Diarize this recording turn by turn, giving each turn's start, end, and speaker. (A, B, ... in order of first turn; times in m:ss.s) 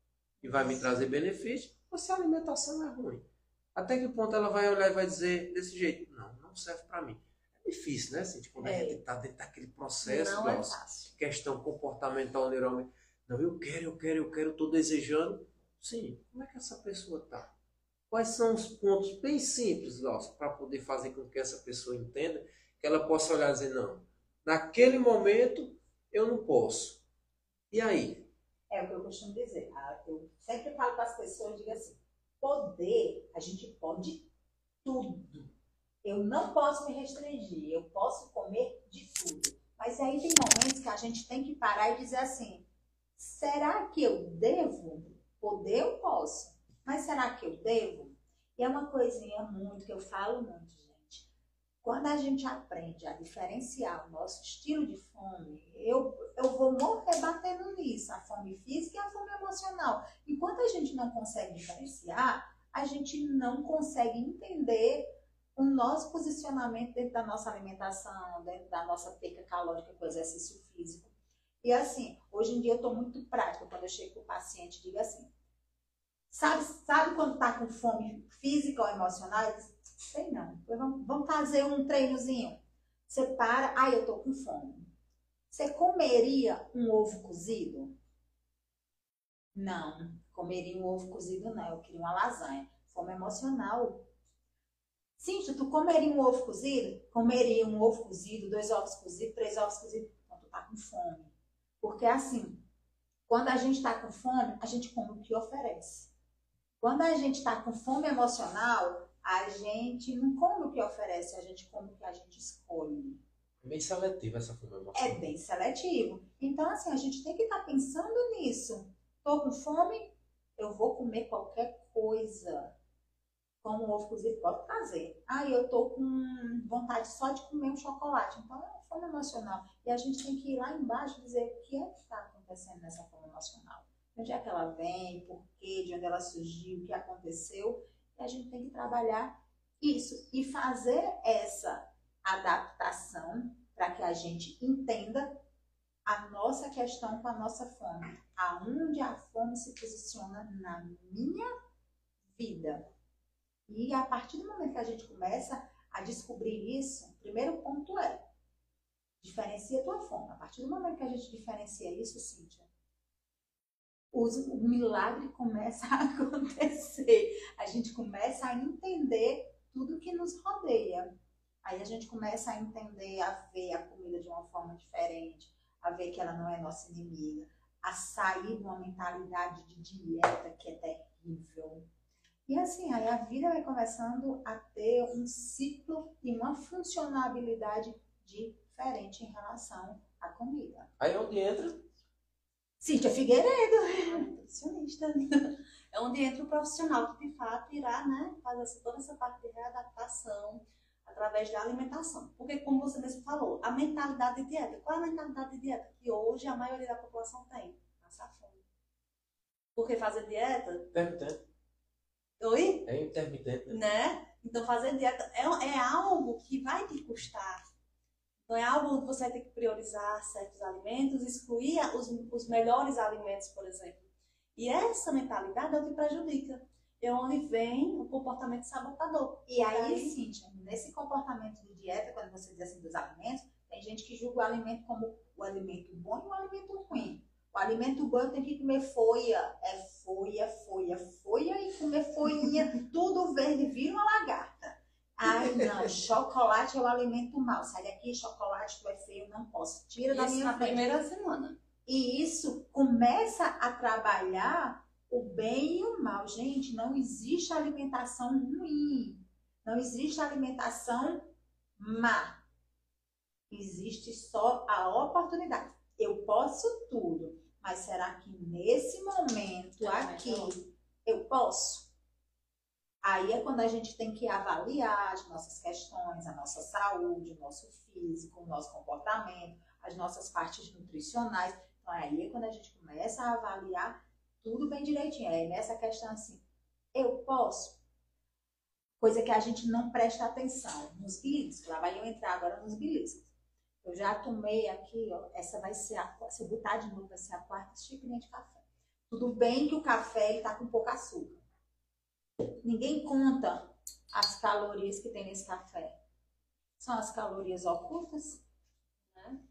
0:00.4-0:17.5 A
0:00.4-0:00.8 B
0:08.6-0:09.0 B
0:10.0-0:11.1 B
0:18.1-0:27.0 A
0:27.7-0:28.3 A
0:28.7-0:34.3 C
0:34.8-0:35.5 C
0:36.0-0:42.7 C
0:43.2-0:51.3 C
0:51.8-1:15.3 C
1:16.3-1:24.9 C
1:25.5-1:28.0 C
1:29.5-1:34.1 C
1:35.2-1:42.7 C
1:43.3-1:46.1 C
1:46.8-1:53.2 C
1:53.6-1:55.3 A
1:54.9-2:02.8 C
2:03.6-2:25.4 C
2:26.1-2:31.5 C
2:32.3-2:32.9 C
2:33.7-2:38.3 C
2:39.2-2:42.7 C
2:44.1-3:01.9 C
3:02.5-3:10.9 C
3:11.0-3:11.8 A
3:12.8-3:14.3 C
3:14.0-3:28.6 B
3:29.8-3:30.9 B
3:30.9-3:31.4 A
3:32.4-3:32.9 B
3:32.9-3:33.8 A
3:33.7-3:37.6 B
3:38.5-3:50.2 B
3:49.5-4:11.0 C
4:10.1-4:11.6 B
4:11.9-4:22.4 C
4:23.5-4:31.9 C
4:29.8-4:30.6 B
4:33.0-4:47.8 C
4:49.0-4:53.3 C
4:53.8-5:01.4 C
5:02.6-5:06.0 C
5:06.8-5:08.4 C
5:09.1-5:09.4 B